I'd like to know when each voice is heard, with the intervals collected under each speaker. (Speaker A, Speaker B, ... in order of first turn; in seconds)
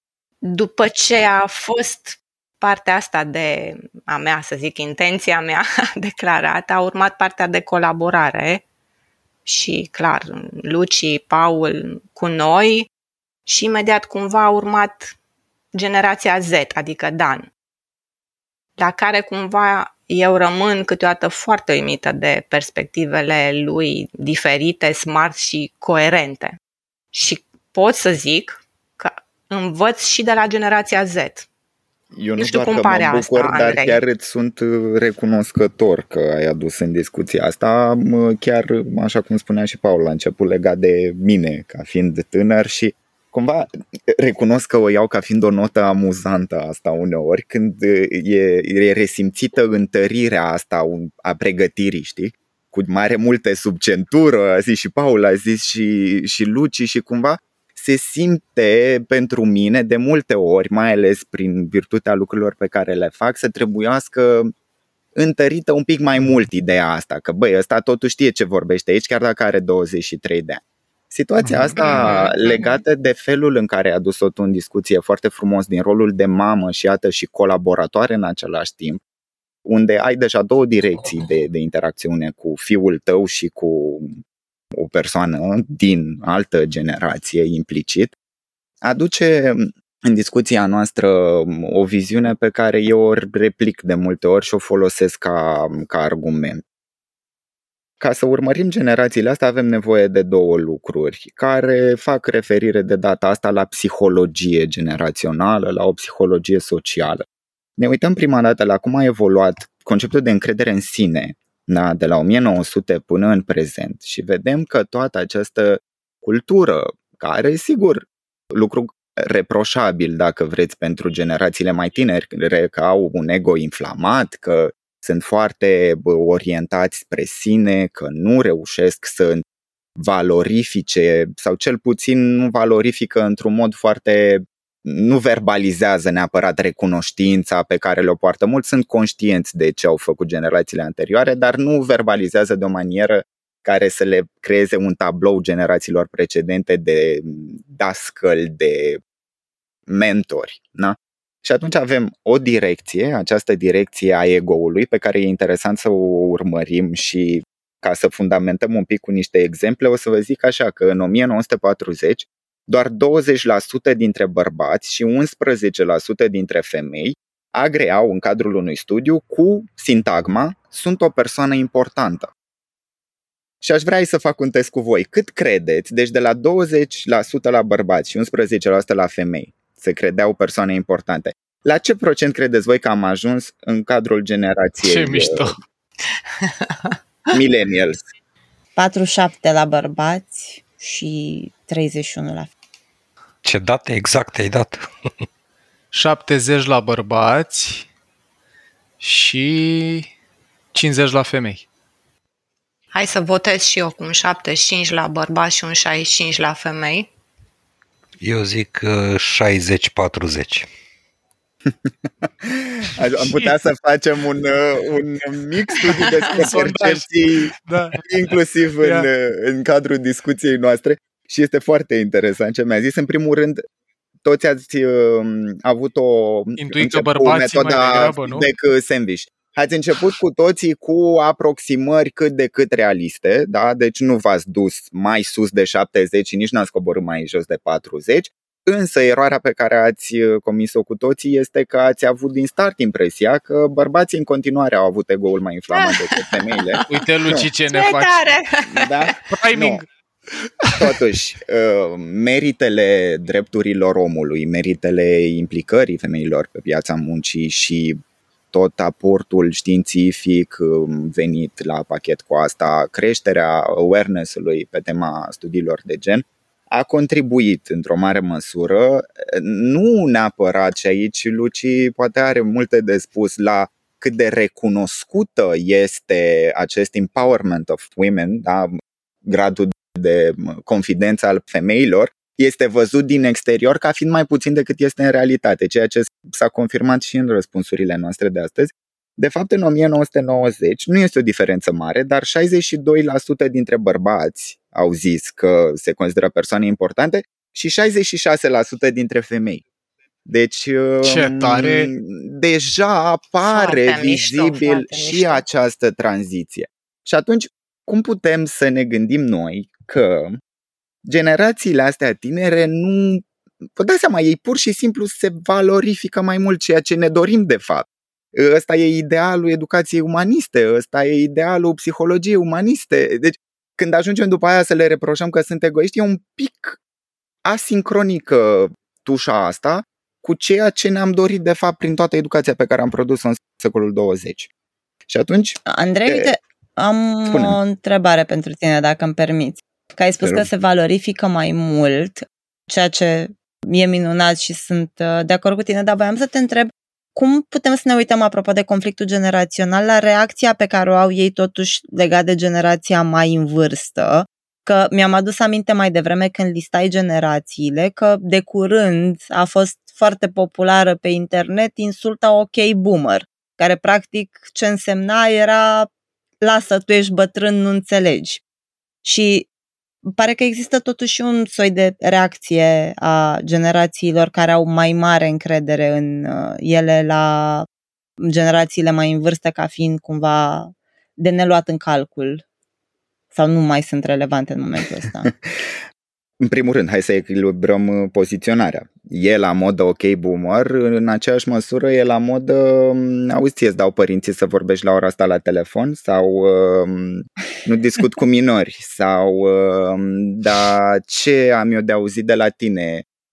Speaker A: 0.4-8.6, 9.4-12.9, 13.4-15.1, 15.7-17.5, 18.8-26.6, 27.1-31.5, 32.4-34.0, 186.4-186.9, 202.9-207.1, 245.7-247.0, 247.7-249.2, 303.4-305.4
Speaker B: 32.1-64.5, 65.2-79.0, 79.6-84.2, 84.7-88.1, 88.8-96.6, 98.0-107.2, 107.8-129.4, 129.9-149.0, 149.9-172.3, 173.6-185.5, 187.3-188.0, 211.8-223.6, 224.2-247.4, 248.7-249.8, 250.8-258.0, 258.5-278.7, 279.2-299.6, 300.2-310.4, 311.0-326.8, 327.4-334.5, 335.1-336.3, 337.3-337.6, 340.2-340.5, 385.2-385.7, 386.4-403.0
Speaker C: 71.4-72.3, 184.8-185.6, 195.9-197.9, 199.0-200.1, 200.7-201.6, 213.2-213.5, 215.9-217.1, 217.6-218.0, 218.8-219.1, 226.6-228.5, 246.9-248.2, 249.2-249.8, 301.0-301.9
Speaker D: 188.8-192.5, 335.7-365.9, 366.4-368.4, 369.0-369.5, 370.1-377.7, 378.2-382.4, 383.3-385.3
Speaker E: 193.4-194.9, 208.2-210.7